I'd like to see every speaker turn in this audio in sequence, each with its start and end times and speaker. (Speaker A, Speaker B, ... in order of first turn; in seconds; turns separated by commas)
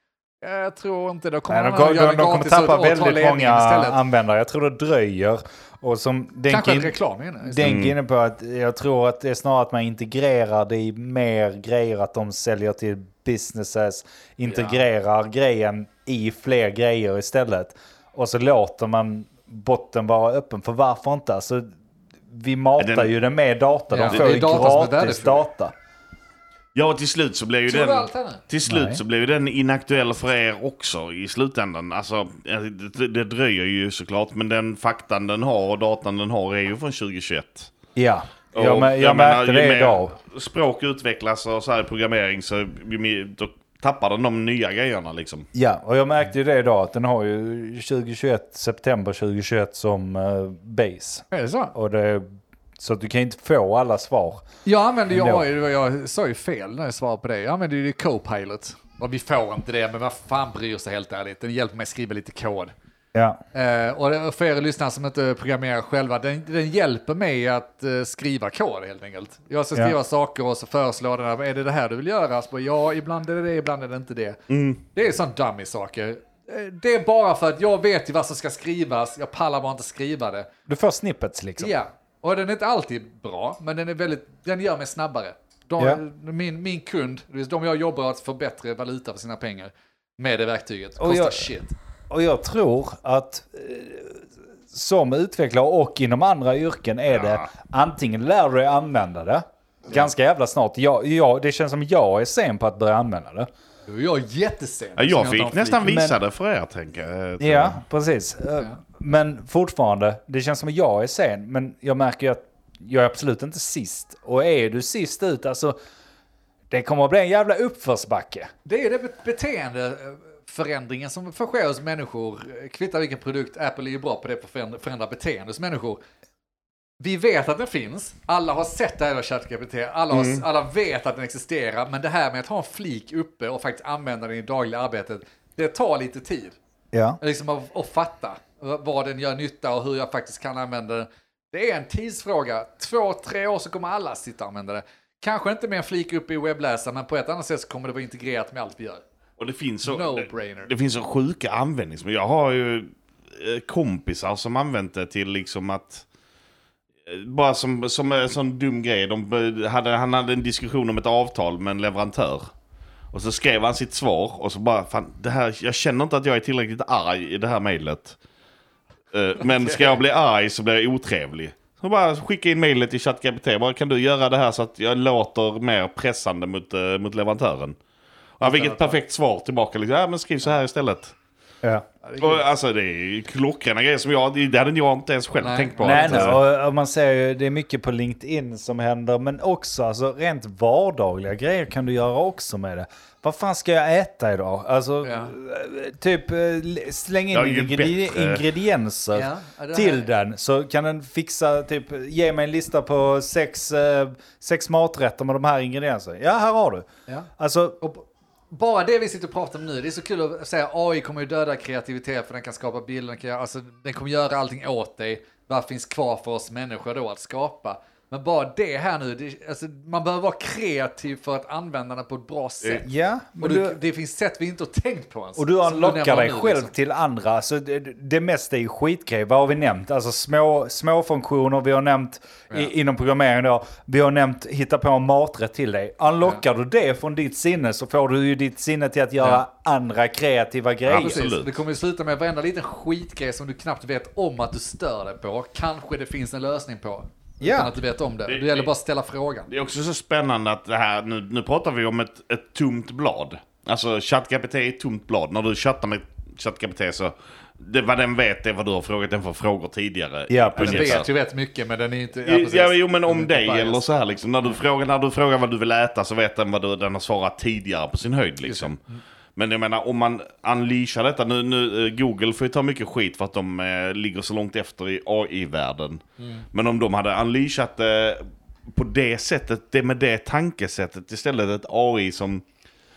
Speaker A: 0.4-4.0, Speaker B: 1.5-21.7, Speaker A: 6.5-7.7, Speaker C: 7.6-8.0, Speaker A: 14.5-14.8, Speaker B: 22.3-25.7, Speaker C: 22.8-23.1, Speaker A: 23.9-25.4, Speaker C: 26.7-37.7, Speaker A: 27.7-28.4, Speaker B: 28.6-29.0, Speaker B: 38.0-40.1, Speaker C: 38.5-45.5, Speaker B: 45.5-52.3, Speaker A: 51.3-51.7, Speaker B: 52.8-54.4, Speaker A: 54.6-62.7, Speaker B: 55.1-55.4, Speaker B: 63.1-63.4, Speaker A: 63.5-80.5, Speaker C: 74.5-74.8, Speaker B: 80.7-81.7, Speaker A: 81.6-91.7, Speaker B: 91.0-91.5, Speaker B: 92.1-103.5, Speaker C: 97.2-97.4, Speaker A: 103.9-105.9, Speaker C: 105.0-107.8, Speaker B: 105.8-106.2, Speaker B: 107.4-115.8, Speaker B: 116.7-118.5, Speaker A: 118.6-126.0, Speaker A: 127.0-136.6, Speaker B: 130.1-130.4, Speaker B: 136.9-137.2, Speaker A: 137.2-149.0, Speaker C: 149.4-156.0, Speaker A: 149.8-150.7, Speaker C: 157.1-162.5, Speaker C: 163.1-168.2, Speaker C: 169.1-177.8, Speaker A: 169.4-169.9, Speaker C: 178.4-181.1, Speaker A: 178.4-178.9, Speaker A: 182.0-182.4, Speaker C: 182.2-186.4, Speaker A: 185.4-186.4, Speaker B: 185.8-207.8, Speaker A: 195.0-195.3, Speaker C: 197.3-198.5, Speaker A: 199.1-200.1, Speaker A: 207.8-222.9, Speaker B: 222.8-223.8, Speaker A: 223.4-226.7, Speaker B: 225.4-241.2, Speaker C: 240.9-241.6, Speaker A: 240.9-249.5, Speaker B: 247.4-247.7, Speaker C: 248.2-248.7, Speaker C: 249.5-261.1, Speaker B: 260.3-261.0, Speaker A: 260.6-263.8, Speaker C: 262.2-268.8, Speaker A: 268.4-269.0, Speaker C: 269.4-282.4, Speaker A: 276.2-276.4